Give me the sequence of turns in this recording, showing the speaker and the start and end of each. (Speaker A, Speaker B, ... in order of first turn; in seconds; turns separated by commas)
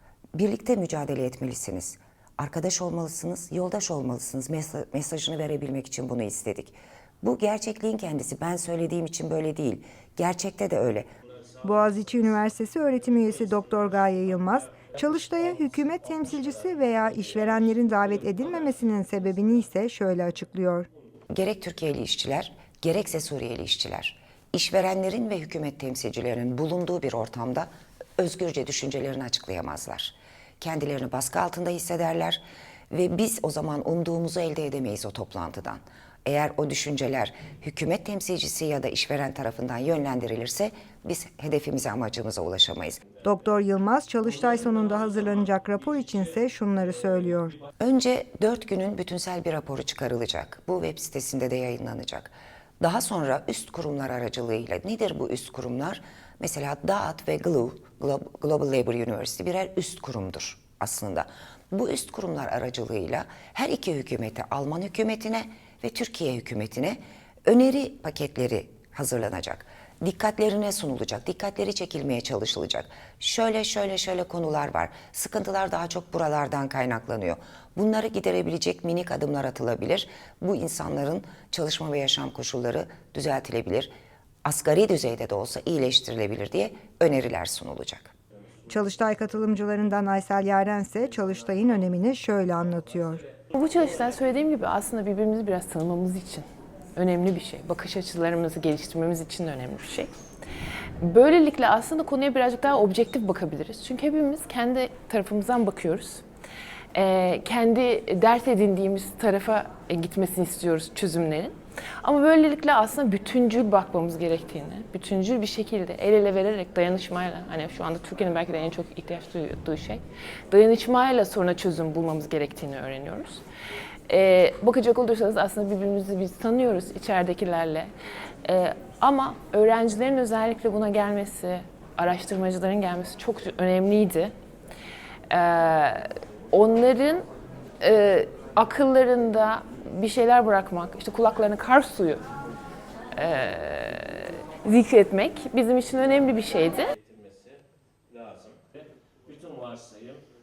Speaker A: 0.3-11.1, Speaker B: 11.6-20.9, Speaker A: 21.3-43.0, Speaker B: 43.2-47.6, Speaker A: 47.8-83.9, Speaker A: 84.5-88.1, Speaker B: 88.7-93.2, Speaker C: 93.5-100.1, Speaker C: 101.0-106.2, Speaker C: 106.9-123.4, Speaker C: 124.1-127.9, Speaker C: 128.4-134.3, Speaker C: 135.3-137.3, Speaker C: 137.8-142.2, Speaker C: 143.1-146.9